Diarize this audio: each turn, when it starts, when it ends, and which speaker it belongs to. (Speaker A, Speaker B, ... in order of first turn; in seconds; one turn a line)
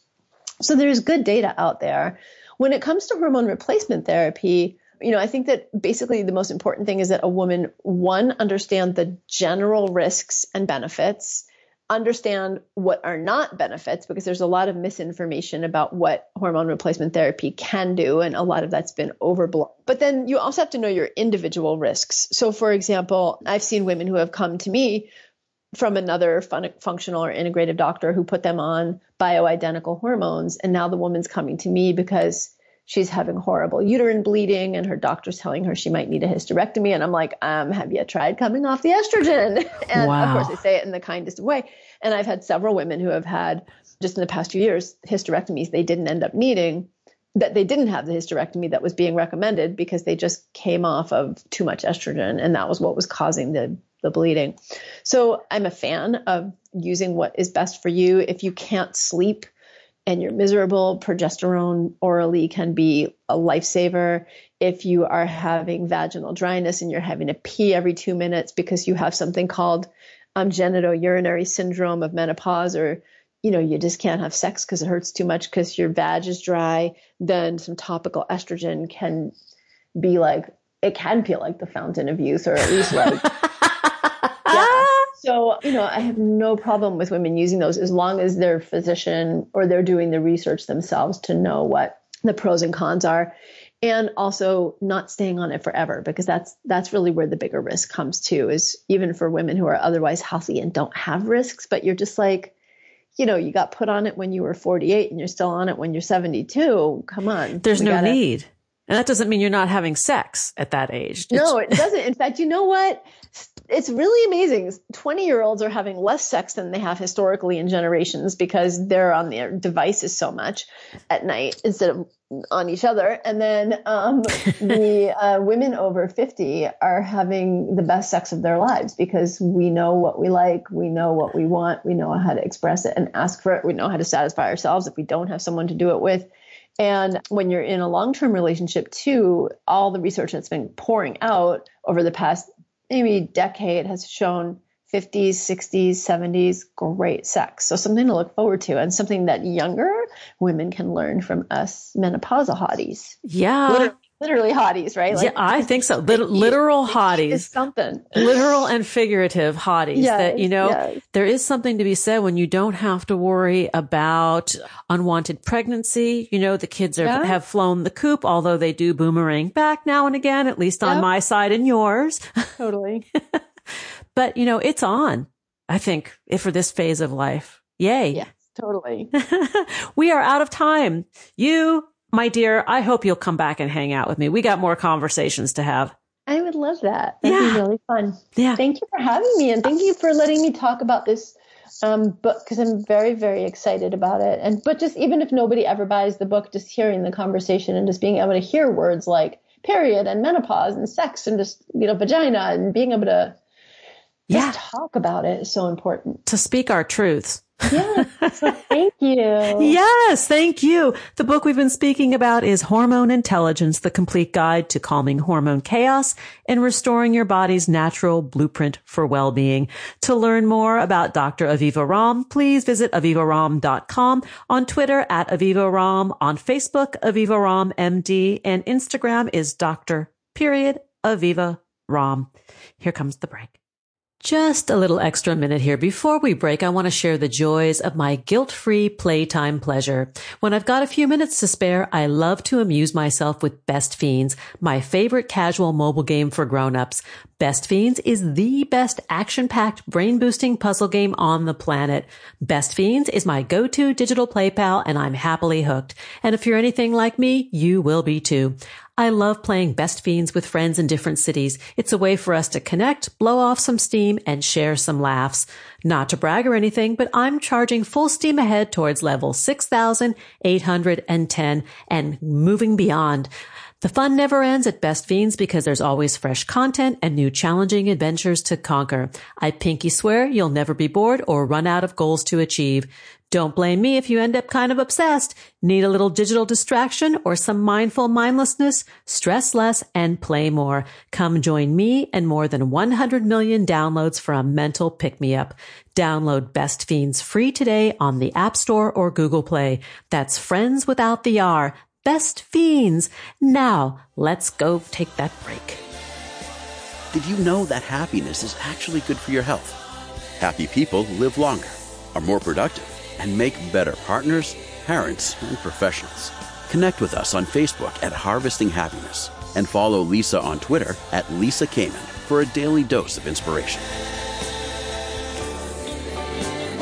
Speaker A: 0.6-25.1
Speaker A: 25.7-59.5
Speaker B: 39.9-40.5
Speaker A: 60.0-79.3
Speaker A: 80.0-83.3
Speaker A: 84.5-102.5
Speaker B: 84.5-85.0
Speaker A: 103.2-108.2
Speaker B: 107.6-111.8
Speaker A: 111.3-158.4
Speaker B: 153.2-153.9
Speaker B: 155.1-157.5
Speaker B: 158.2-172.5
Speaker A: 159.9-161.0
Speaker A: 167.0-167.4
Speaker A: 172.6-173.0
Speaker B: 174.1-178.2
Speaker A: 178.1-179.1
Speaker B: 179.1-185.9
Speaker A: 186.3-203.4
Speaker B: 187.2-187.6
Speaker B: 188.3-188.6
Speaker B: 204.3-204.6
Speaker A: 204.3-206.2
Speaker B: 206.2-208.5
Speaker A: 207.7-209.8
Speaker B: 209.6-233.6
Speaker B: 234.2-273.3
Speaker B: 273.8-305.8
Speaker C: 307.1-309.8
Speaker C: 310.4-323.9